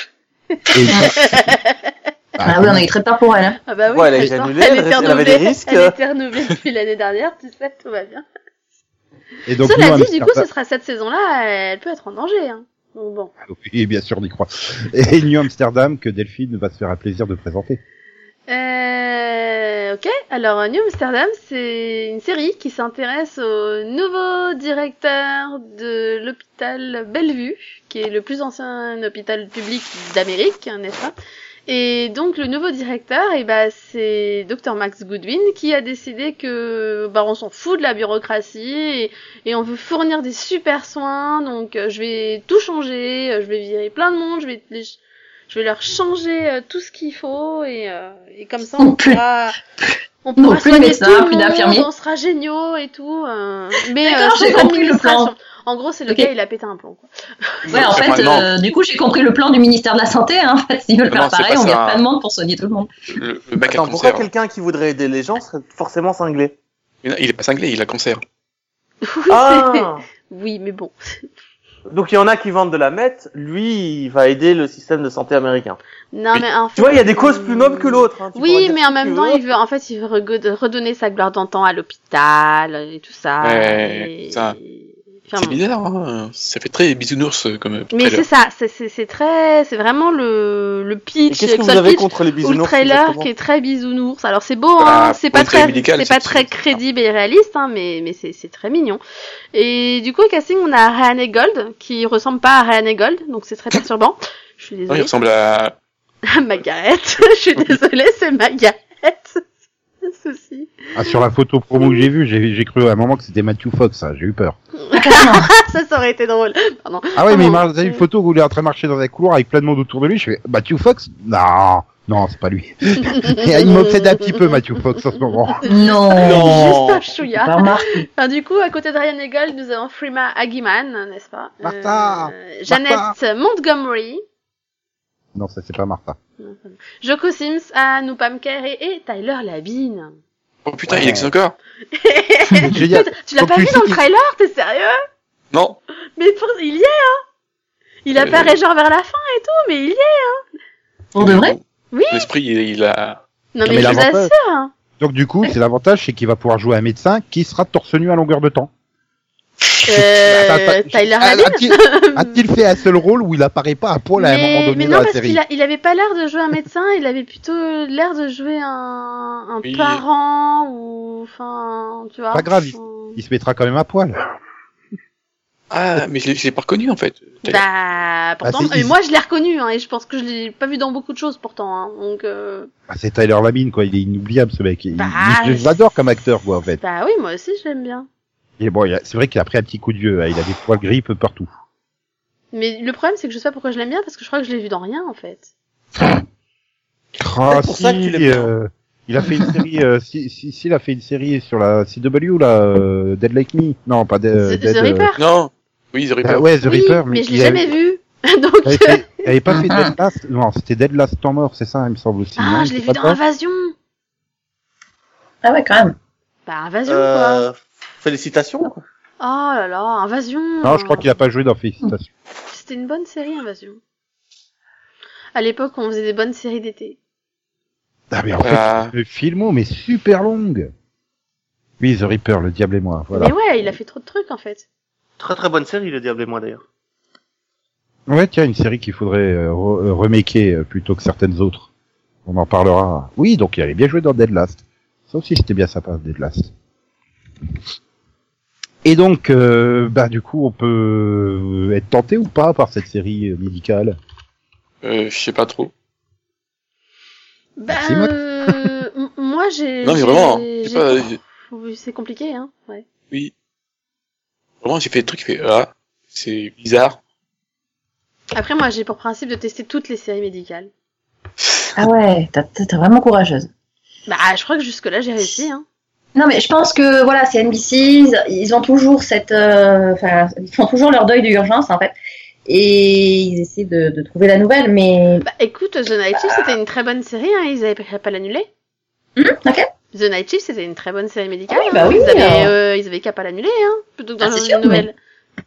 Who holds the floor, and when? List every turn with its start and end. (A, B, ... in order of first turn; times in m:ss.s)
0:00.7-0:01.9 A
0:00.7-0:01.2 B
0:02.4-0:02.9 B
0:02.4-0:03.6 C
0:03.7-0:08.2 A
0:03.9-0:06.0 D
0:09.5-0:10.4 B
0:09.6-0:13.3 A
0:13.5-0:17.8 B
0:18.5-0:31.2 A
0:31.7-0:45.0 A
0:45.5-0:49.6 A
0:48.8-0:49.2 C
0:49.8-0:51.9 C
0:50.2-0:57.1 A
0:54.0-0:55.3 C
0:57.6-0:58.0 A
0:57.7-1:02.9 C
0:57.7-0:58.5 E
1:01.1-1:02.0 E
1:03.1-1:04.3 E
1:03.6-1:06.6 D
1:07.0-1:08.2 E
1:09.1-1:11.0 A
1:09.3-1:10.0 D
1:11.9-1:15.8 D
1:16.1-1:25.6 A
1:16.8-1:19.4 D
1:23.4-1:24.6 E
1:25.4-1:28.2 E
1:27.9-1:39.0 A
1:31.3-1:33.3 D
1:34.8-1:36.8 E
1:39.5-1:45.1 A
1:44.9-1:45.8 E
1:46.3-1:49.4 A
1:50.0-1:50.8 A
1:51.0-1:54.6 B
1:51.8-1:52.1 A
1:54.8-1:58.0 A
1:54.9-1:55.5 C
1:57.2-2:05.6 B
2:03.1-2:04.3 A
2:05.3-2:14.2 A
2:05.6-2:08.1 C
2:06.2-2:07.0 D
2:11.6-2:13.2 B
2:15.4-2:16.2 B
2:16.4-2:20.2 A
2:20.6-2:21.6 E
2:20.9-2:21.3 B
2:21.9-2:25.0 A
2:22.6-2:24.0 B
2:25.5-2:25.8 E
2:26.2-2:27.2 A
2:28.0-2:30.4 A
2:28.1-2:28.6 E
2:31.2-2:31.6 C
2:31.2-2:34.0 E
2:31.9-2:32.3 A
2:33.6-2:34.7 A
2:33.6-2:34.3 B
2:35.0-2:38.7 B
2:39.8-2:45.4 B
2:39.9-2:42.4 A
2:44.2-2:53.2 A
2:49.6-2:50.0 E
2:52.3-2:54.2 B
2:55.7-2:57.6 E
2:57.4-3:02.7 A
2:58.4-2:58.9 B
3:02.9-3:06.8 B
3:04.9-3:05.7 A
3:06.8-3:08.1 A
3:08.6-3:11.5 B
3:12.5-3:15.5 A
3:17.2-3:25.1 B
3:17.5-3:18.5 D
3:24.4-3:25.2 A
3:25.2-3:26.5 E
3:26.2-3:27.7 B
3:26.6-3:29.3 A
3:28.6-3:33.2 B
3:29.5-3:29.9 C
3:32.4-3:33.7 A
3:35.4-3:36.0 C
3:36.5-3:37.5 A
3:36.9-3:38.8 D
3:39.2-3:41.1 A
3:40.6-3:42.1 B
3:42.5-3:43.8 A
3:45.4-3:47.0 A
3:48.1-3:50.7 B
3:48.4-3:48.9 E
3:51.8-3:53.8 B
3:53.1-3:54.7 A
3:55.2-3:56.6 D
3:58.1-4:01.7 B
4:02.3-4:06.5 B
4:08.8-4:14.0 B
4:14.8-4:15.7 E
4:17.6-4:22.8 A
4:17.7-4:18.5 B
4:19.8-4:21.2 E
4:24.6-4:27.0 E
4:28.4-4:30.7 A
4:31.8-4:33.5 C
4:34.1-4:35.6 A
4:36.2-4:41.9 C
4:42.5-4:45.3 C
4:45.2-4:48.5 A
4:49.2-4:49.7 C
4:49.9-4:55.0 A
4:51.5-4:52.5 C
4:54.2-4:54.9 C